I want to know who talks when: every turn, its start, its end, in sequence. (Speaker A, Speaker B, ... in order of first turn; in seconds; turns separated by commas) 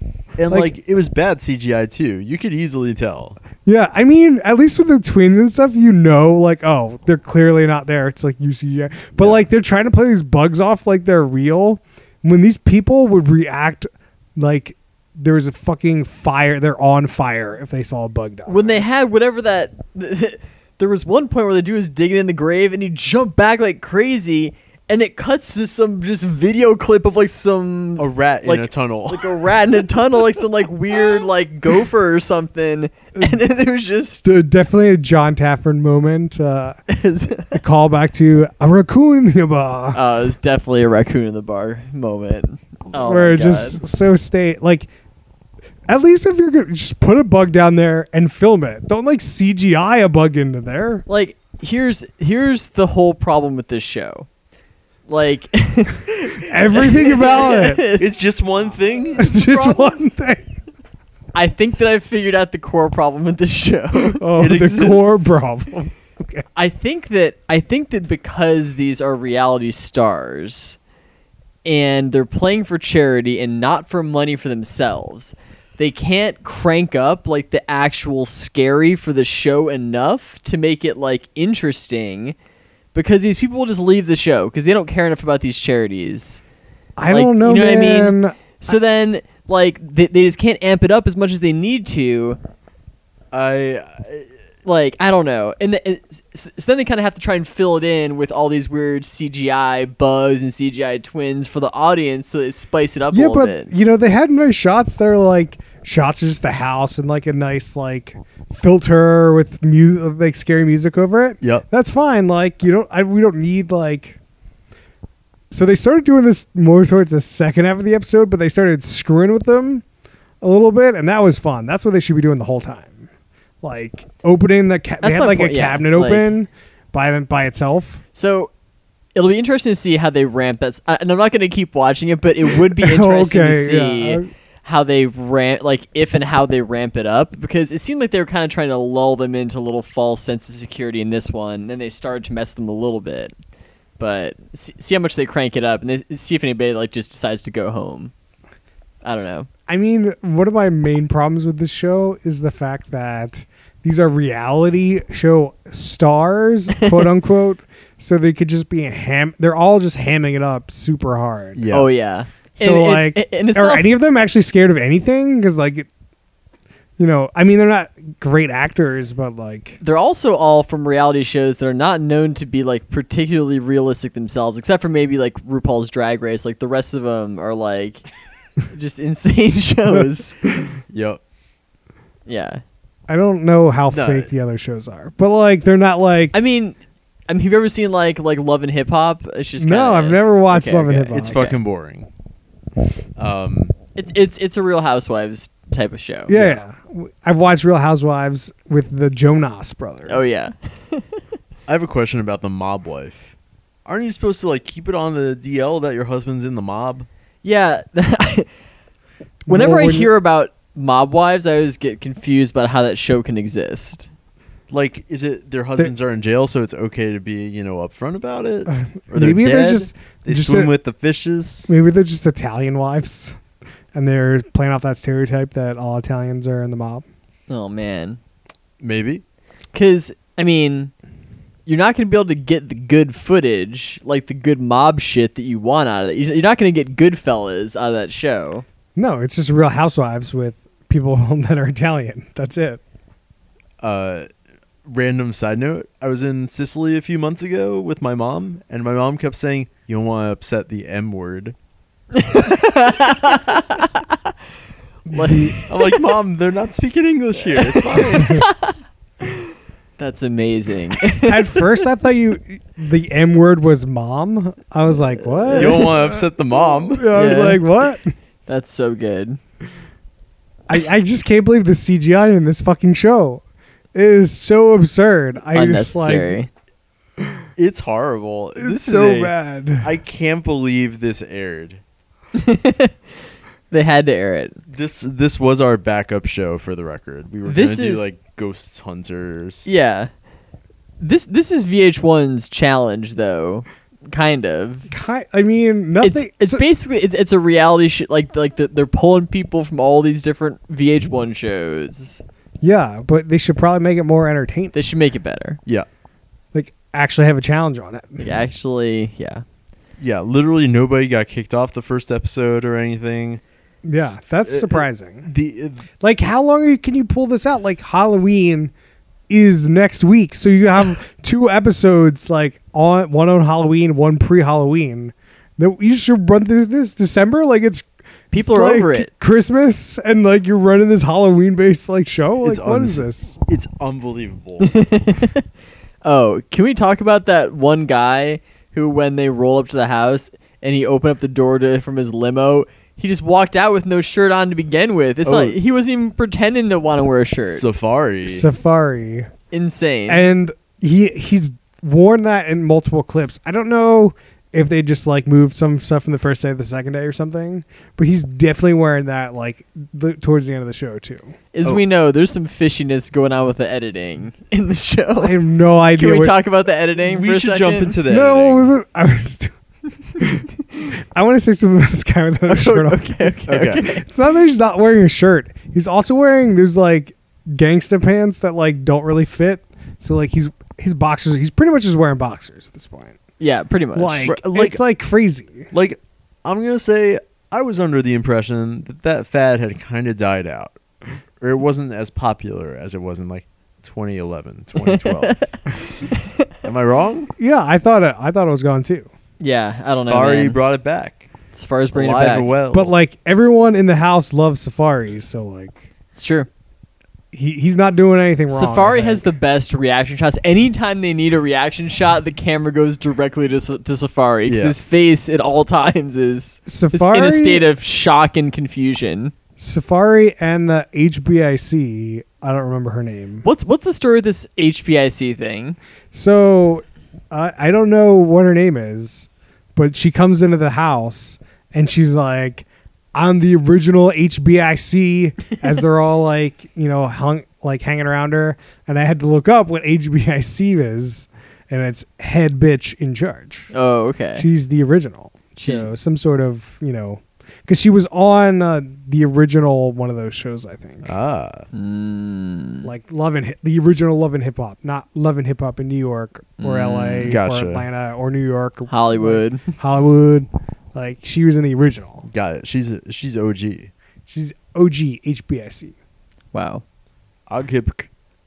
Speaker A: 0.4-3.4, Speaker B: 3.6-18.9, Speaker C: 18.5-34.2, Speaker A: 28.0-29.5, Speaker B: 34.2-36.8, Speaker C: 36.9-37.6, Speaker B: 37.5-40.0, Speaker C: 39.9-43.8, Speaker B: 43.0-44.9, Speaker B: 45.9-51.0, Speaker C: 51.1-54.3, Speaker C: 55.1-58.1, Speaker B: 56.4-57.8, Speaker A: 58.0-59.3, Speaker B: 59.2-60.5, Speaker C: 59.3-60.0, Speaker C: 61.3-64.7, Speaker B: 64.2-66.5, Speaker A: 64.4-65.4, Speaker C: 66.5-70.8, Speaker C: 71.7-82.4, Speaker C: 82.9-86.4, Speaker B: 87.0-88.4, Speaker C: 87.1-92.4, Speaker A: 93.3-94.3, Speaker C: 94.7-103.7, Speaker B: 103.1-114.2, Speaker B: 115.5-119.8, Speaker B: 120.4-123.1, Speaker B: 123.6-128.0, Speaker C: 125.0-126.3, Speaker C: 128.1-128.5, Speaker C: 129.2-143.3, Speaker B: 132.7-134.3, Speaker C: 144.0-148.1, Speaker C: 149.0-149.5, Speaker B: 149.7-161.6, Speaker C: 156.8-157.1, Speaker A: 161.6-161.9, Speaker C: 161.7-163.9, Speaker B: 162.6-165.9, Speaker B: 167.0-169.8, Speaker C: 169.8-178.1, Speaker C: 178.7-180.4, Speaker B: 179.9-180.8, Speaker A: 180.9-181.2, Speaker C: 182.3-182.6, Speaker B: 183.1-186.3, Speaker A: 183.9-184.3, Speaker C: 186.3-186.8, Speaker C: 187.3-191.6, Speaker B: 189.6-191.5, Speaker A: 191.1-192.1, Speaker A: 193.2-193.7, Speaker C: 193.9-196.4, Speaker B: 196.3-200.2, Speaker C: 200.1-201.2, Speaker A: 201.7-203.3, Speaker A: 203.9-207.1, Speaker C: 207.4-208.5, Speaker B: 209.5-210.1, Speaker C: 209.5-214.1, Speaker A: 214.7-221.7, Speaker B: 218.7-220.7, Speaker B: 221.7-223.4, Speaker B: 223.9-227.1, Speaker C: 227.5-228.2, Speaker A: 228.8-229.2, Speaker C: 229.7-230.9, Speaker C: 231.7-238.7, Speaker B: 239.0-242.8, Speaker A: 243.8-244.3, Speaker A: 244.8-251.6, Speaker C: 252.1-254.2, Speaker B: 255.1-255.6, Speaker C: 255.1-256.0, Speaker A: 255.7-258.4, Speaker C: 257.4-258.8, Speaker B: 258.2-258.4, Speaker C: 260.0-261.7, Speaker B: 261.2-266.3, Speaker C: 265.5-265.8, Speaker A: 265.5-267.4, Speaker B: 266.9-268.1, Speaker C: 267.1-267.6, Speaker C: 268.5-269.4, Speaker B: 270.7-273.4, Speaker B: 273.9-276.4, Speaker C: 275.5-276.5, Speaker A: 277.6-281.8, Speaker B: 278.6-279.9, Speaker C: 282.4-283.0, Speaker C: 283.7-284.6, Speaker A: 284.7-289.7, Speaker C: 287.5-288.1, Speaker C: 289.6-290.1, Speaker C: 291.0-294.9, Speaker B: 294.9-296.6, Speaker C: 296.0-302.2, Speaker B: 302.6-304.8, Speaker C: 304.7-305.6, Speaker B: 306.5-308.2, Speaker C: 308.2-309.4, Speaker A: 310.0-313.4, Speaker B: 313.9-315.3, Speaker A: 314.0-315.9, Speaker B: 316.0-318.7, Speaker B: 319.3-333.4, Speaker C: 328.3-329.1, Speaker A: 332.4-334.8, Speaker C: 334.6-335.4, Speaker C: 336.0-347.6, Speaker A: 345.2-345.6, Speaker A: 347.4-348.5, Speaker B: 348.2-349.3, Speaker C: 349.5-350.2, Speaker B: 350.1-361.3, Speaker C: 361.5-365.4, Speaker B: 365.2-366.4, Speaker C: 365.9-368.0, Speaker A: 367.0-368.7, Speaker B: 368.1-369.5, Speaker B: 370.2-383.2, Speaker C: 372.5-374.1, Speaker A: 373.5-373.9, Speaker C: 383.4-384.3, Speaker B: 383.9-385.7, Speaker A: 384.2-384.8, Speaker A: 385.7-390.8, Speaker A: 391.4-395.4, Speaker C: 394.8-396.4, Speaker A: 396.6-397.3, Speaker B: 397.4-399.1, Speaker C: 399.4-400.6, Speaker A: 399.9-401.3, Speaker C: 401.5-402.5, Speaker A: 401.9-402.9, Speaker B: 402.7-405.8, Speaker C: 406.1-406.5, Speaker B: 407.3-409.3, Speaker C: 408.5-419.3, Speaker A: 414.5-414.8, Speaker B: 416.7-417.7, Speaker B: 419.6-423.4, Speaker C: 423.4-425.8, Speaker B: 426.1-443.7, Speaker C: 443.7-444.5, Speaker B: 444.4-451.1, Speaker C: 445.6-445.9, Speaker A: 451.0-451.7, Speaker C: 451.7-452.9, Speaker B: 452.8-462.2, Speaker C: 456.6-457.4, Speaker A: 457.2-457.9, Speaker C: 458.9-459.7, Speaker A: 462.3-463.9, Speaker B: 464.3-465.9, Speaker C: 466.5-466.8, Speaker A: 467.5-468.1